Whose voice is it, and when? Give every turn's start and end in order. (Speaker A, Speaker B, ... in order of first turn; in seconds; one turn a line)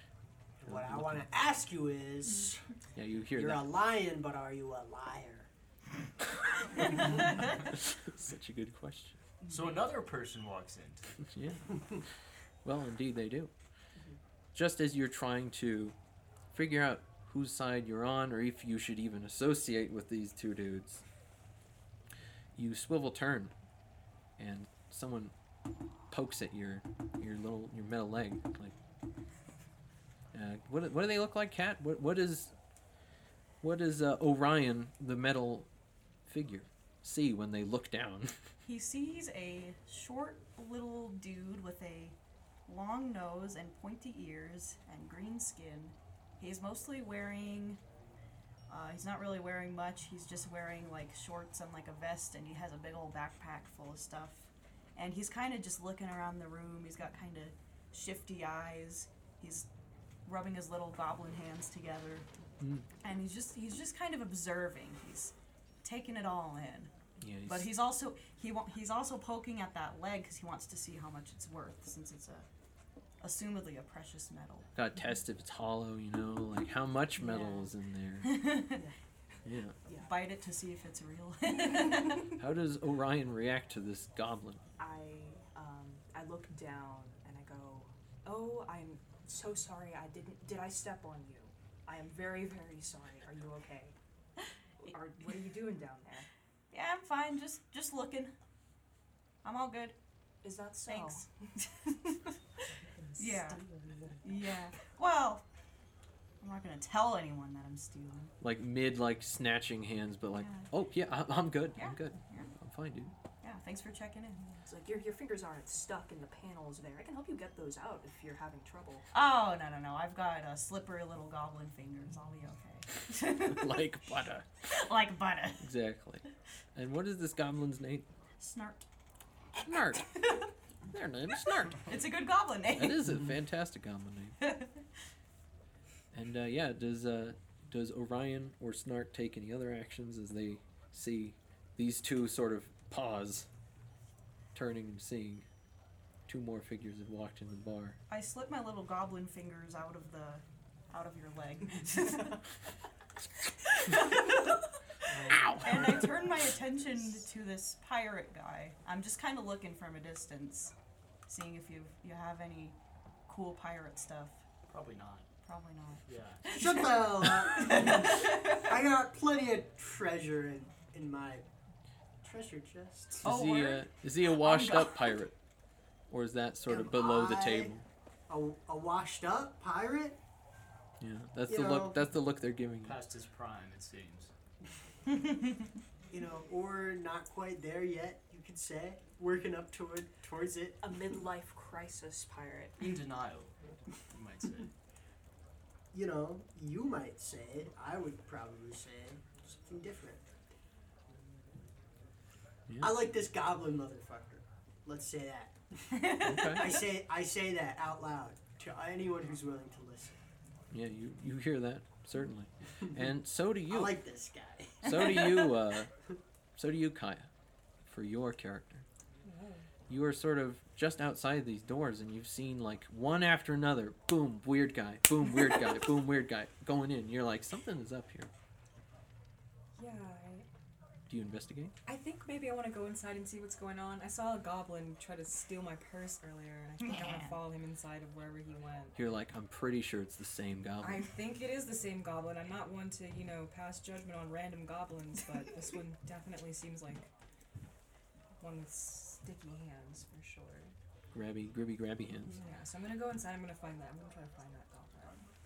Speaker A: 0.6-2.6
Speaker B: 0.7-1.3
Speaker B: 3.0-3.7
Speaker A: 3.3-5.5
Speaker B: 7.6-9.2
Speaker C: 9.4-9.7
Speaker D: 9.5-11.2
Speaker B: 11.3-11.9
Speaker B: 12.6-13.5
Speaker B: 14.5-16.0
Speaker B: 16.5-21.0
Speaker B: 22.6-23.5
Speaker B: 24.4-25.3
Speaker B: 26.1-28.8
Speaker B: 30.3-32.5
Speaker B: 33.6-35.7
Speaker B: 36.3-38.4
Speaker E: 38.6-47.8
Speaker E: 48.7-59.7
Speaker E: 60.2-62.3
Speaker B: 62.6-62.9
Speaker E: 63.0-66.9
Speaker B: 67.2-67.7
Speaker E: 67.5-72.5
Speaker E: 73.2-74.7
Speaker B: 74.8-78.4
Speaker E: 77.2-78.9
Speaker B: 79.5-79.8
Speaker C: 79.9-80.2
Speaker E: 79.9-82.4
Speaker B: 82.4-84.6
Speaker C: 84.8-94.0
Speaker C: 94.8-96.3
Speaker E: 96.7-98.3
Speaker E: 99.4-100.0
Speaker C: 100.4-101.3
Speaker E: 100.9-102.3
Speaker C: 103.0-104.2
Speaker E: 103.2-103.6
Speaker E: 104.2-105.5
Speaker E: 106.4-108.3
Speaker B: 108.4-113.1
Speaker E: 110.3-110.7
Speaker E: 111.8-112.5
Speaker E: 113.4-114.6
Speaker C: 114.6-119.1
Speaker E: 119.1-123.9
Speaker B: 123.5-124.5
Speaker E: 124.7-125.7
Speaker B: 125.6-126.2
Speaker B: 126.8-128.1
Speaker E: 128.4-128.9
Speaker B: 129.6-130.1
Speaker E: 129.8-130.5
Speaker B: 130.9-131.9
Speaker E: 131.7-133.2
Speaker B: 132.8-134.4
Speaker E: 134.4-134.8
Speaker B: 136.1-143.5
Speaker B: 144.5-145.5
Speaker B: 146.3-148.0
Speaker E: 148.1-152.5
Speaker E: 153.7-154.7
Speaker A: 155.1-156.3
Speaker B: 155.3-156.1
Speaker E: 155.6-160.7
Speaker E: 161.3-162.8
Speaker E: 163.3-164.4
Speaker D: 164.7-165.3
Speaker E: 165.4-168.2
Speaker D: 166.1-166.7
Speaker A: 166.5-171.5
Speaker A: 172.2-173.3
Speaker B: 173.2-175.3
Speaker E: 173.2-175.2
Speaker B: 176.1-177.8
Speaker A: 176.7-177.8
Speaker A: 178.3-180.2
Speaker B: 181.0-183.0
Speaker A: 181.5-182.0
Speaker D: 182.8-184.3
Speaker A: 186.1-190.8
Speaker C: 190.8-192.9
Speaker D: 192.8-194.7
Speaker A: 195.9-200.3
Speaker B: 202.7-202.9
Speaker A: 202.8-210.2
Speaker E: 206.0-206.8
Speaker B: 206.2-206.8
Speaker B: 210.7-214.0
Speaker A: 213.7-215.3
Speaker B: 214.8-215.9
Speaker B: 216.6-217.3
Speaker B: 217.9-218.9
Speaker F: 219.2-219.7
Speaker B: 219.9-228.3
Speaker F: 229.8-230.5
Speaker B: 231.1-231.7
Speaker F: 231.9-239.0
Speaker E: 236.8-237.4
Speaker B: 238.9-241.1
Speaker F: 240.8-247.1
Speaker F: 248.4-250.8
Speaker B: 251.1-252.4
Speaker F: 252.2-255.3